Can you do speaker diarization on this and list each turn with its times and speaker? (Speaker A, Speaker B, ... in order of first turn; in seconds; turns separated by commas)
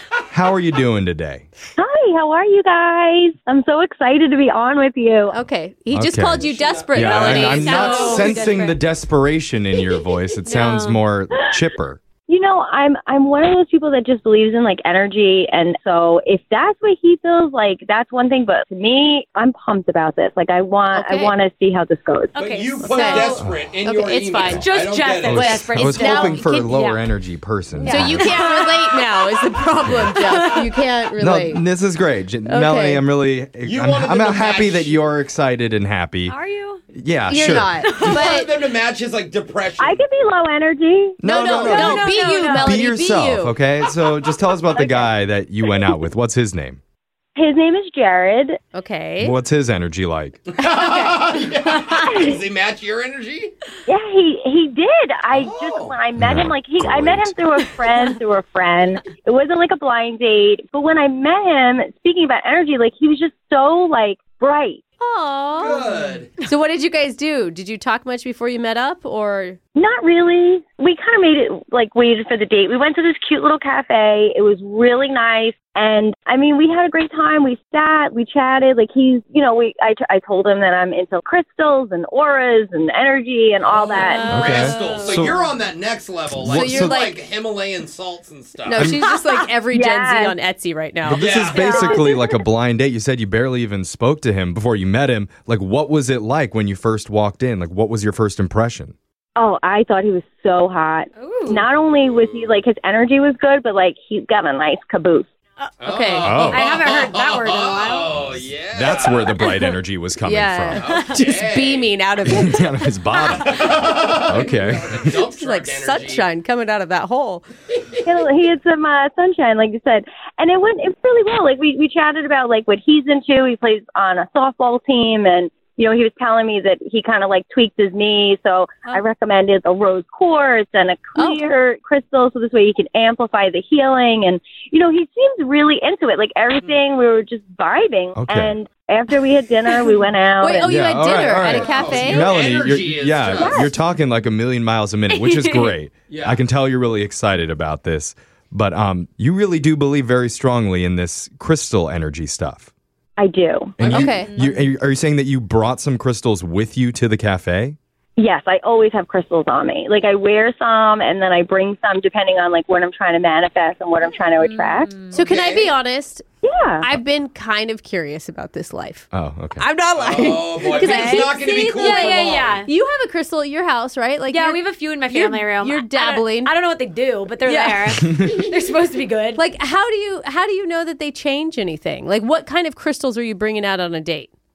Speaker A: 0.3-1.5, Speaker B: 1.8-5.4, Speaker C: 5.3-8.4, Speaker A: 5.9-12.0, Speaker D: 6.3-8.7, Speaker E: 7.2-8.8, Speaker E: 10.4-11.0, Speaker B: 12.3-22.4, Speaker C: 20.9-21.3, Speaker E: 22.3-23.4, Speaker D: 22.4-25.5, Speaker C: 22.9-24.7, Speaker E: 24.5-27.1, Speaker A: 25.3-28.4, Speaker C: 25.3-26.8, Speaker E: 27.8-29.5, Speaker C: 27.9-31.6, Speaker E: 30.0-30.7, Speaker A: 31.2-36.4, Speaker C: 32.5-33.0, Speaker D: 33.6-35.1, Speaker E: 36.2-36.8, Speaker A: 36.9-37.8, Speaker C: 37.3-38.5, Speaker E: 37.8-38.2, Speaker D: 37.9-40.0, Speaker B: 39.8-41.2, Speaker A: 41.2-46.8, Speaker C: 41.3-43.6, Speaker E: 41.3-42.8, Speaker B: 44.7-45.1, Speaker B: 47.4-48.6, Speaker C: 48.7-49.4, Speaker A: 49.2-50.4, Speaker D: 50.5-53.5, Speaker B: 52.0-52.4, Speaker B: 53.9-64.8, Speaker D: 55.3-56.1, Speaker A: 56.2-57.4, Speaker C: 65.0-69.6, Speaker D: 65.5-66.3, Speaker B: 69.8-84.4, Speaker D: 83.6-89.0, Speaker E: 84.0-85.2, Speaker A: 84.3-85.4, Speaker A: 86.3-87.0, Speaker C: 86.4-87.2, Speaker C: 88.7-92.0, Speaker B: 89.7-90.3, Speaker D: 91.1-92.0, Speaker A: 91.1-99.0, Speaker B: 91.6-92.2, Speaker B: 99.4-105.3, Speaker E: 101.2-101.7, Speaker D: 101.9-102.6, Speaker D: 105.8-109.5, Speaker E: 105.8-108.1, Speaker A: 106.2-106.7, Speaker A: 108.2-110.9, Speaker E: 109.3-109.7, Speaker C: 110.2-113.0, Speaker D: 110.7-111.9, Speaker A: 112.3-115.2, Speaker D: 113.3-116.3, Speaker C: 115.0-117.4, Speaker B: 118.0-141.6, Speaker C: 131.2-131.4, Speaker A: 138.2-138.6, Speaker C: 140.4-142.3, Speaker A: 140.6-152.7, Speaker D: 141.5-143.7, Speaker B: 143.3-143.8, Speaker E: 145.1-145.8, Speaker D: 146.1-146.4, Speaker B: 153.2-153.8, Speaker D: 153.8-154.2, Speaker A: 153.8-157.8, Speaker C: 153.9-154.3, Speaker E: 154.1-154.7, Speaker B: 158.2-164.9, Speaker E: 164.4-165.2, Speaker C: 165.1-166.2, Speaker D: 165.2-165.7, Speaker B: 166.4-166.9, Speaker C: 166.8-176.5, Speaker A: 169.1-169.6, Speaker D: 169.9-172.7, Speaker E: 170.8-172.7, Speaker E: 174.3-179.4, Speaker C: 177.4-178.1, Speaker A: 178.1-178.4, Speaker C: 179.3-184.3